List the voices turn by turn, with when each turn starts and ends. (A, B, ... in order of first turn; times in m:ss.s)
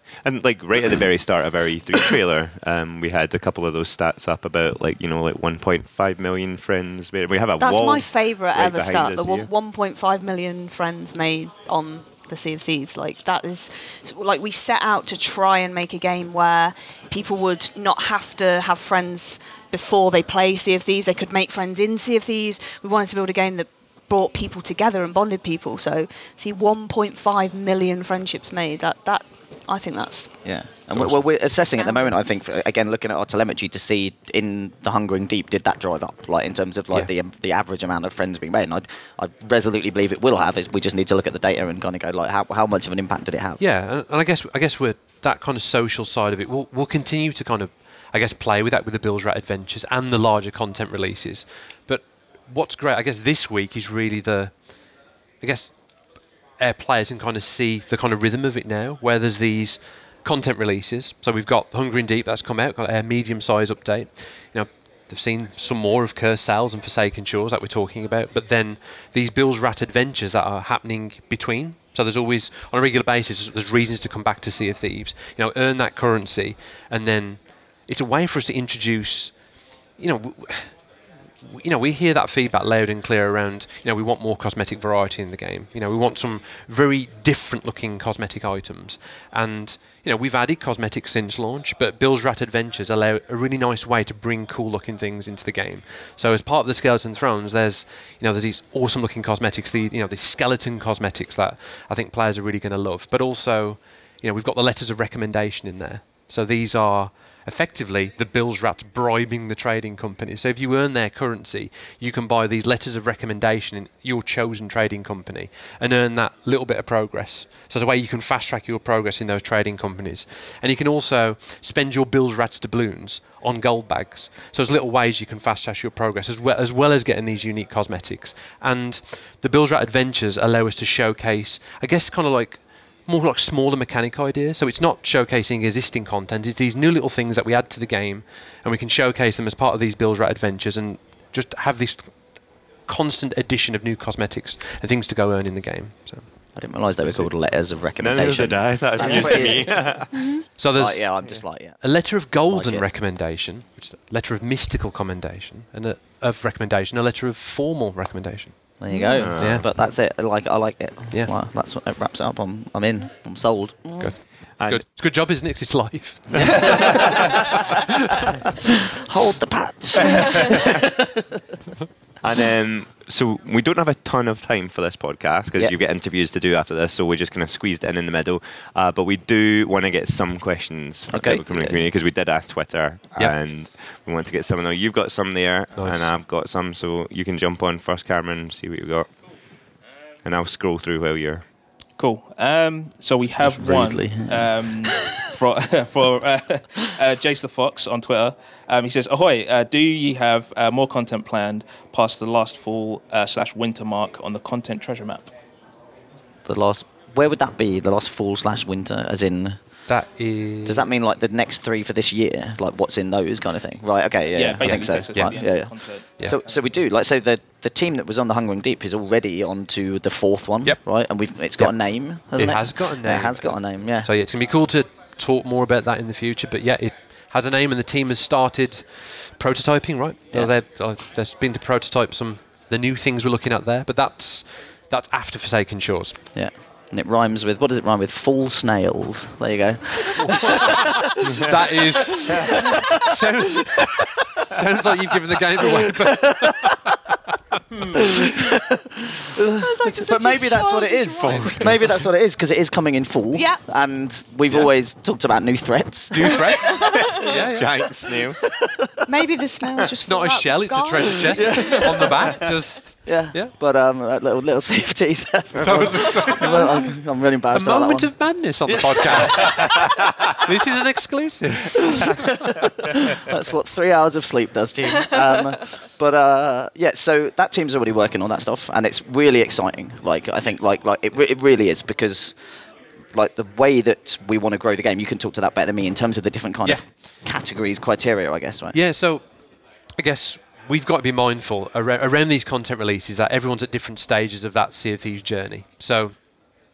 0:00.2-0:09.5 A
0:07.6-0:30.6 B
0:30.4-0:43.6 C
0:30.9-0:31.2 D
0:31.5-0:32.3 B
0:43.6-2:27.3 D
2:26.5-2:30.0 C
2:28.0-2:30.1 A
2:29.1-2:29.3 B
2:30.1-2:30.4 B
2:30.6-2:38.8 D
2:30.7-2:32.9 C
2:38.8-2:44.2 C
2:38.9-2:39.3 B
2:39.2-2:39.7 A
2:39.4-2:39.7 D
2:44.0-2:47.0 D
2:44.6-2:44.8 A
2:46.4-2:47.1 C
2:46.4-2:46.8 A
2:49.1-2:50.9 C
2:52.2-3:11.5 A
3:01.1-3:01.8 C
3:05.7-3:06.1 D
3:12.0-3:25.3 E
3:13.2-3:14.9 C
3:26.4-3:29.9 C
3:29.9-3:30.9 D
3:30.6-3:44.1 C
3:34.3-3:36.6 E
3:34.6-3:36.4 D
3:40.6-3:56.2 D
3:56.3-4:00.9 C
4:00.1-4:07.0 D
4:02.2-4:02.8 C
4:06.1-4:06.5 C
4:08.4-4:16.5 C
4:09.6-4:11.7 B
4:11.2-4:12.0 D
4:13.3-4:13.6 B
4:16.1-4:17.9 D
4:16.6-4:17.0 B
4:17.0-4:18.4 A
4:19.0-4:21.9 B
4:20.0-4:23.5 D
4:23.0-4:28.3 C
4:25.6-4:27.0 D
4:27.5-4:32.7 D
4:32.8-4:42.4 C
4:43.1-4:48.8 C
4:48.7-4:49.4 D
4:50.0-4:56.3 D